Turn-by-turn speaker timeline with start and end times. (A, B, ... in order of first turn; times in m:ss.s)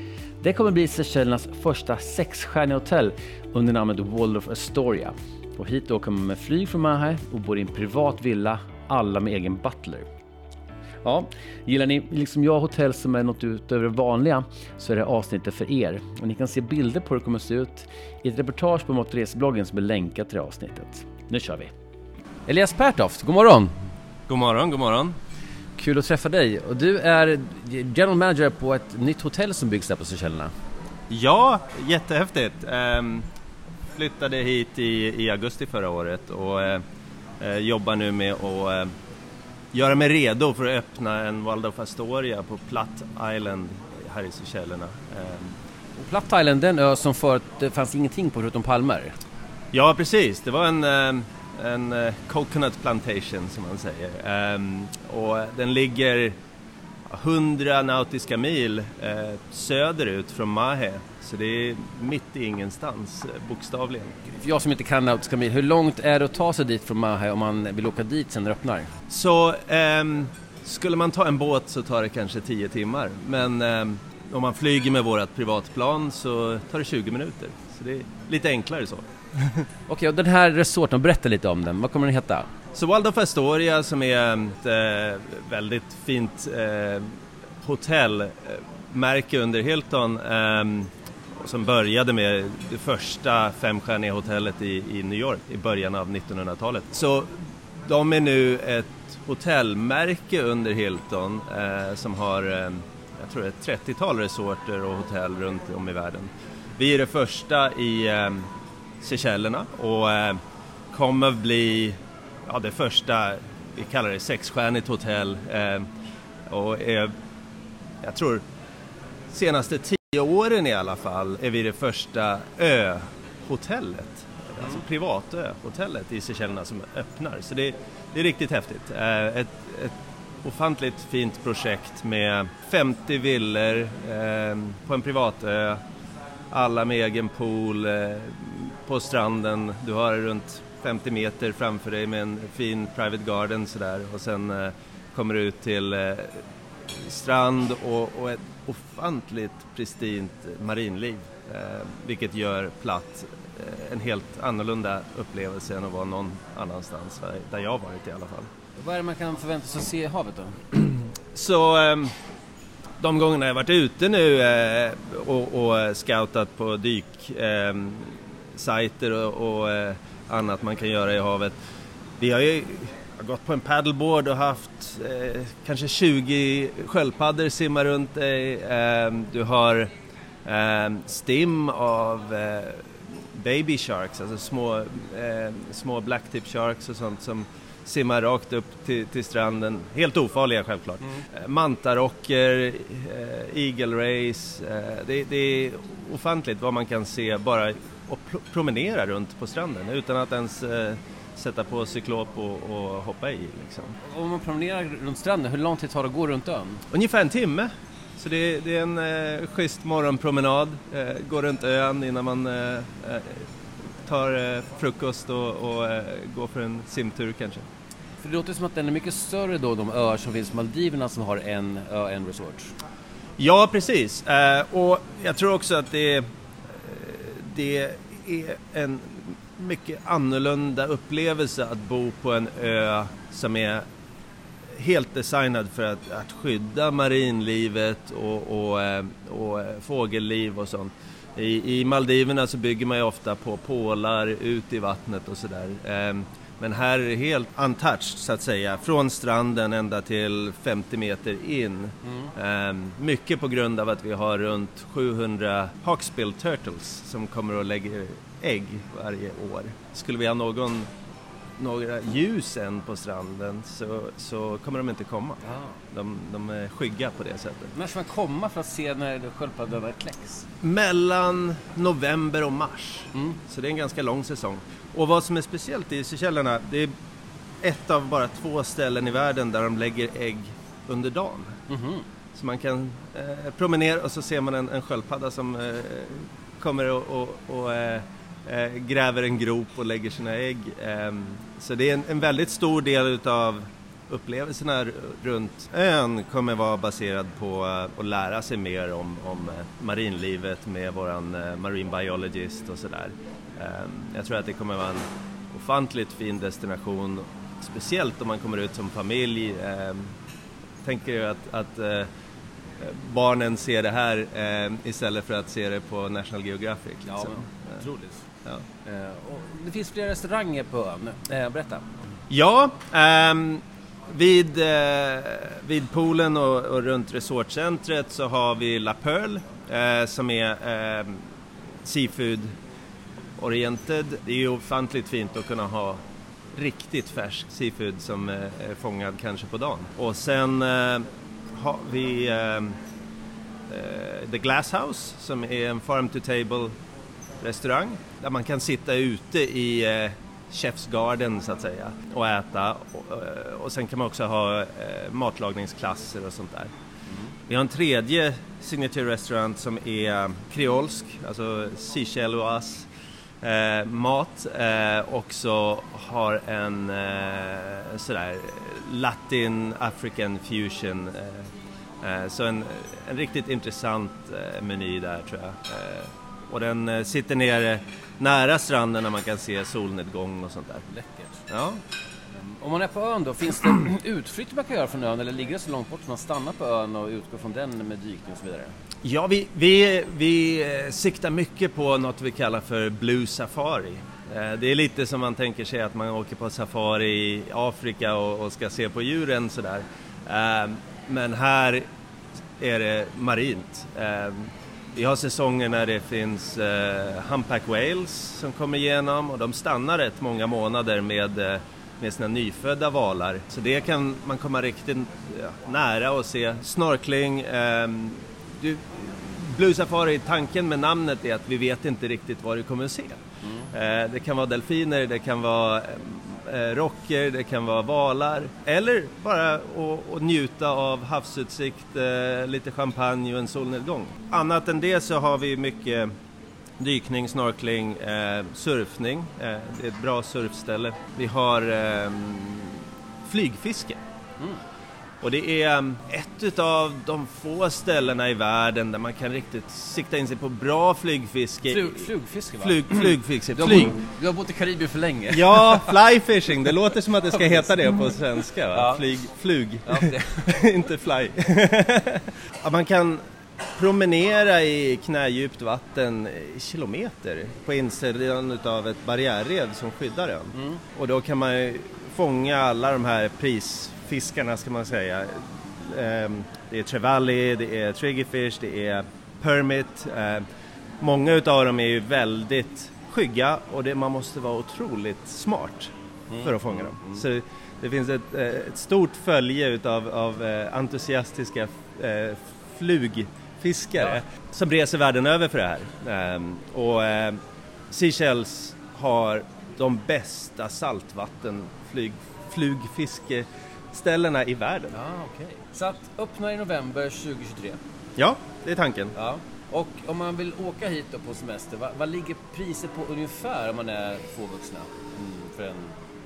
0:00.4-0:10.0 A
0:11.0-0:21.7 A
0:22.4-0:23.7 A
0:24.3-0:25.2 B
0:25.8-0:30.5 A
0:31.1-0:33.2 B
0:33.9-0:36.8 B
0:37.4-0:38.9 B
0:39.7-0:45.5 B
0:46.0-0:49.2 A
0:49.7-0:56.3 B
0:57.1-1:04.2 B
1:04.3-1:08.9 A
1:09.1-1:19.6 B
1:19.9-1:22.5 A
1:22.7-1:37.3 B
1:37.8-1:48.5 B
1:49.0-1:50.4 B
1:50.9-1:55.8 B
1:56.5-1:57.1 B
1:58.0-1:58.4 B
1:59.3-2:15.8 B
2:16.5-2:26.4 B
2:26.9-2:38.5 B
2:38.8-2:40.8 A
2:41.3-2:42.1 B
2:43.0-2:51.6 B
2:52.2-2:59.9 B
3:00.4-3:24.0 B
3:24.0-3:26.8 A
3:26.9-3:33.4 B
3:34.0-3:37.6 B
3:38.2-3:42.7 A
3:43.4-3:53.8 B
3:54.8-4:20.9 B
4:12.0-4:12.3 A
4:21.6-4:25.4 B
4:25.9-4:27.7 B
4:27.7-4:30.4 A
4:30.6-4:36.9 B
4:37.6-4:41.5 B
4:41.7-4:42.0 A
4:42.3-5:10.1 B
5:10.8-5:12.1 B
5:12.8-5:17.8 B
5:17.1-5:18.2 A
5:18.8-5:21.8 A
5:22.3-5:31.2 B
5:31.8-5:32.5 B
5:33.4-5:36.0 B
5:36.5-5:42.8 B
5:43.7-5:46.7 B
5:47.4-5:56.7 B
5:57.5-6:02.9 B
6:03.4-6:11.5 B
6:12.0-6:20.8 B
6:20.9-6:21.4 A
6:21.5-6:21.8 B
6:22.4-6:28.7 A
6:29.0-6:41.8 B
6:42.6-7:03.2 B
7:03.4-7:03.7 A
7:03.7-7:16.1 B
7:16.8-7:24.0 B
7:25.2-7:34.0 B
7:31.6-7:35.9 A
7:35.3-7:43.2 B
7:37.3-7:37.6 A
7:38.7-7:39.0 A
7:39.9-7:40.5 A
7:43.8-8:00.4 B
7:50.5-7:50.8 A
8:01.0-8:17.4 B
8:06.3-8:07.2 A
8:17.9-8:25.0 B
8:24.9-8:27.8 A
8:28.2-8:29.1 B
8:29.1-8:36.0 A